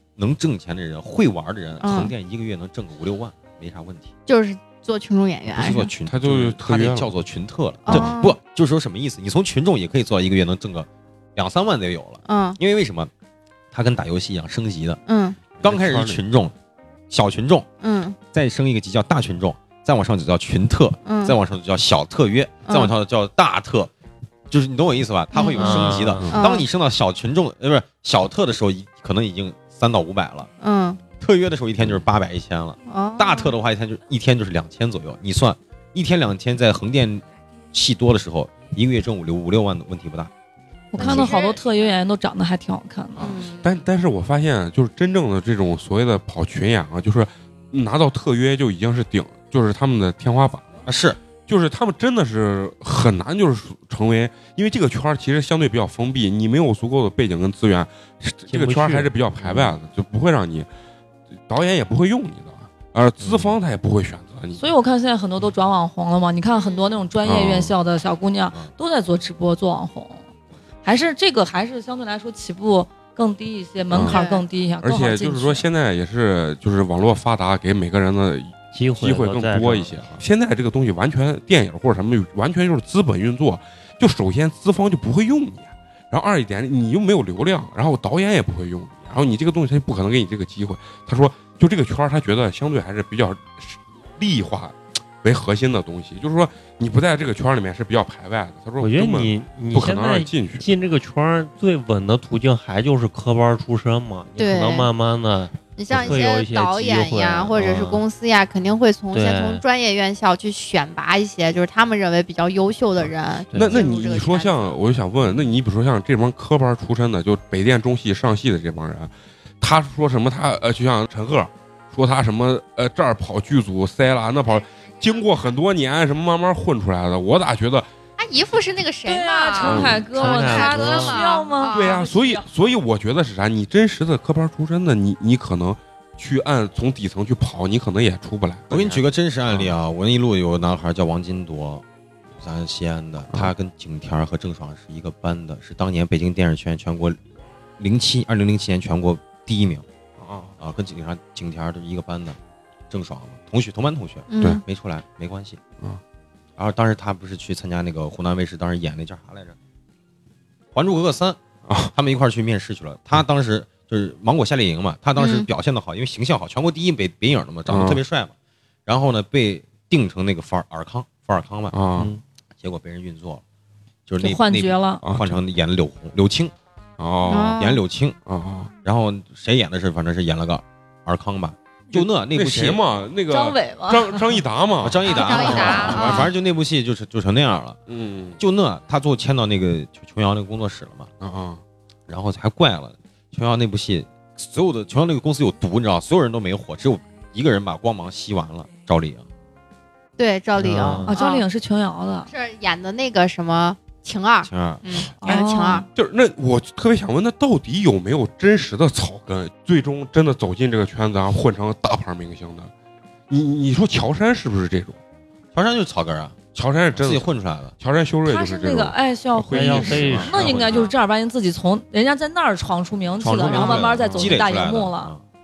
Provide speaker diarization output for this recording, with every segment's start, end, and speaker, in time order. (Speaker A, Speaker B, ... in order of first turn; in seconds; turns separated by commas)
Speaker A: 0.2-4.1, Speaker B: 1.8-2.1, Speaker B: 4.3-5.9, Speaker A: 5.5-13.1, Speaker C: 5.6-7.1, Speaker B: 7.9-8.4, Speaker C: 7.9-8.2, Speaker B: 12.3-12.6, Speaker A: 13.7-15.0, Speaker B: 15.1-15.4, Speaker C: 15.6-16.2, Speaker A: 15.6-16.5, Speaker A: 17.1-17.7, Speaker B: 17.8-18.2, Speaker A: 18.3-23.9, Speaker B: 21.1-21.4, Speaker B: 22.7-22.9, Speaker A: 24.5-30.5, Speaker B: 25.3-26.7, Speaker D: 25.5-26.3, Speaker B: 30.6-31.0, Speaker A: 31.2-40.3, Speaker B: 32.9-33.5, Speaker E: 40.9-43.4, Speaker A: 41.0-41.3, Speaker B: 41.0-41.6, Speaker C: 43.2-50.7, Speaker B: 43.2-43.8, Speaker A: 50.9-51.2, Speaker C: 51.5-60.7, Speaker D: 58.5-59.8, Speaker C: 61.5-64.7, Speaker E: 64.6-70.3, Speaker B: 66.5-67.0, Speaker C: 67.2-67.7, Speaker E: 70.8-75.7, Speaker C: 73.9-74.2, Speaker B: 73.9-74.5, Speaker C: 74.8-100.7, Speaker D: 78.7-80.0, Speaker D: 98.8-108.0, Speaker B: 104.4-104.9, Speaker B: 105.8-114.8, Speaker D: 109.1-109.6, Speaker D: 113.5-113.8, Speaker C: 113.5-127.9, Speaker B: 124.5-125.5, Speaker B: 128.2-132.1, Speaker E: 129.1-132.5, Speaker C: 129.6-130.0, Speaker D: 129.8-131.2, Speaker C: 131.7-139.8, Speaker A: 138.7-141.8, Speaker A: 142.4-147.2, Speaker A: 147.8-149.8, Speaker C: 150.2-150.6, Speaker A: 150.6-152.4, Speaker A: 152.9-155.6, Speaker B: 154.3-154.6, Speaker A: 156.6-159.6, Speaker A: 160.7-161.4, Speaker C: 161.7-161.9, Speaker A: 161.9-168.3, Speaker B: 165.2-165.5, Speaker C: 167.7-168.0, Speaker A: 168.9-171.8, Speaker C: 171.7-172.1, Speaker A: 172.6-173.4, Speaker A: 174.1-176.5, Speaker E: 174.2-175.0, Speaker C: 175.0-175.4, Speaker C: 177.0-177.6, Speaker B: 177.3-177.8, Speaker A: 177.6-178.2, Speaker C: 178.3-178.7, Speaker A: 178.8-182.8, Speaker C: 181.9-186.2, Speaker E: 183.3-184.4, Speaker A: 184.8-187.8, Speaker B: 185.1-186.3, Speaker E: 185.3-185.9, Speaker C: 187.9-188.4, Speaker A: 188.4-191.1, Speaker C: 191.2-191.6, Speaker A: 192.1-199.2, Speaker B: 200.2-201.4, Speaker D: 200.6-201.1, Speaker E: 201.1-202.3, Speaker B: 202.3-205.9, Speaker A: 204.4-204.8, Speaker E: 205.2-205.9, Speaker C: 205.9-212.7, Speaker C: 213.3-215.0, Speaker A: 215.5-217.8, Speaker C: 216.6-217.3, Speaker C: 217.8-220.9, Speaker E: 218.2-225.1, Speaker D: 219.5-220.9, Speaker A: 223.2-225.2, Speaker C: 223.5-224.4